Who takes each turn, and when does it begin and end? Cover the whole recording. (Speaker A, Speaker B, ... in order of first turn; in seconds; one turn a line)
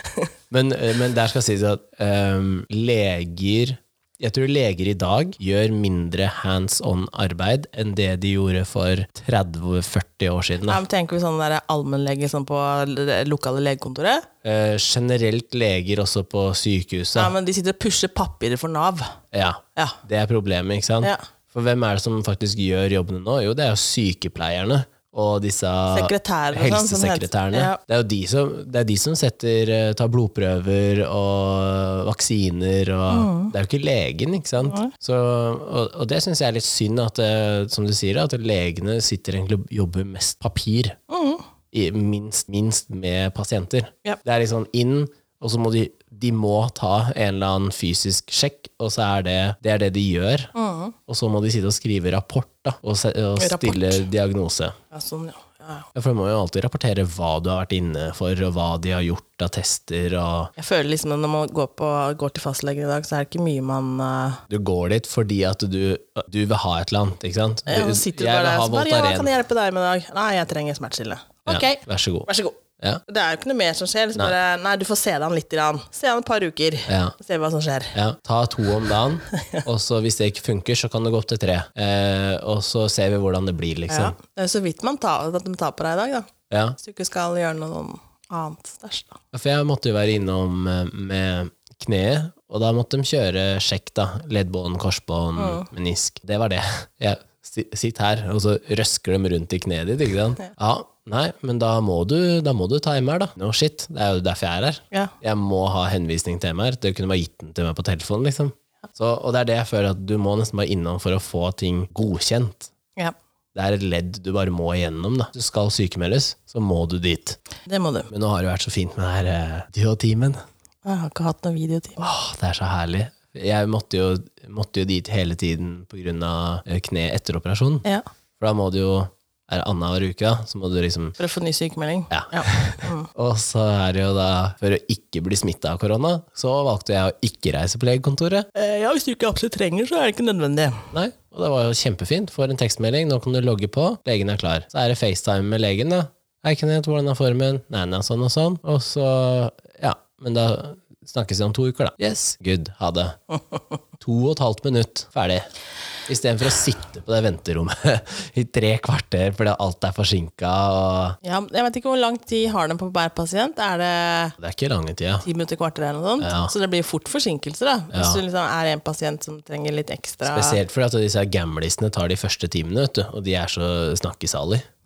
Speaker A: 0.5-10.8
Speaker B: 10.7-14.3
Speaker A: 14.4-17.3
Speaker B: 17.1-19.1
Speaker A: 19.3-41.0
Speaker B: 25.9-27.8
Speaker B: 33.1-33.5
Speaker B: 34.6-34.9
Speaker B: 41.1-41.4
Speaker A: 41.7-50.5
Speaker B: 50.5-51.0
Speaker A: 51.1-54.7
Speaker B: 53.4-54.0
Speaker B: 54.9-55.9
Speaker A: 55.9-60.5
Speaker B: 60.6-64.4
Speaker A: 64.5-69.3
Speaker B: 67.7-78.0
Speaker A: 71.5-73.0
Speaker A: 76.9-77.1
Speaker A: 77.9-84.1
Speaker B: 83.9-89.2
Speaker A: 86.5-86.8
Speaker A: 89.3-112.7
Speaker B: 95.4-95.7
Speaker A: 113.5-117.4
Speaker B: 117.7-118.1
Speaker A: 118.1-120.4
Speaker B: 120.8-122.0
Speaker A: 122.0-127.8
Speaker A: 128.4-131.2
Speaker B: 131.2-133.1
Speaker A: 132.1-138.5
Speaker B: 138.5-140.9
Speaker A: 140.9-153.2
Speaker A: 154.0-155.4
Speaker A: 156.1-161.2
Speaker B: 161.2-164.4
Speaker A: 164.4-165.2
Speaker B: 165.2-170.6
Speaker A: 166.2-166.5
Speaker A: 167.9-168.2
Speaker A: 170.2-174.7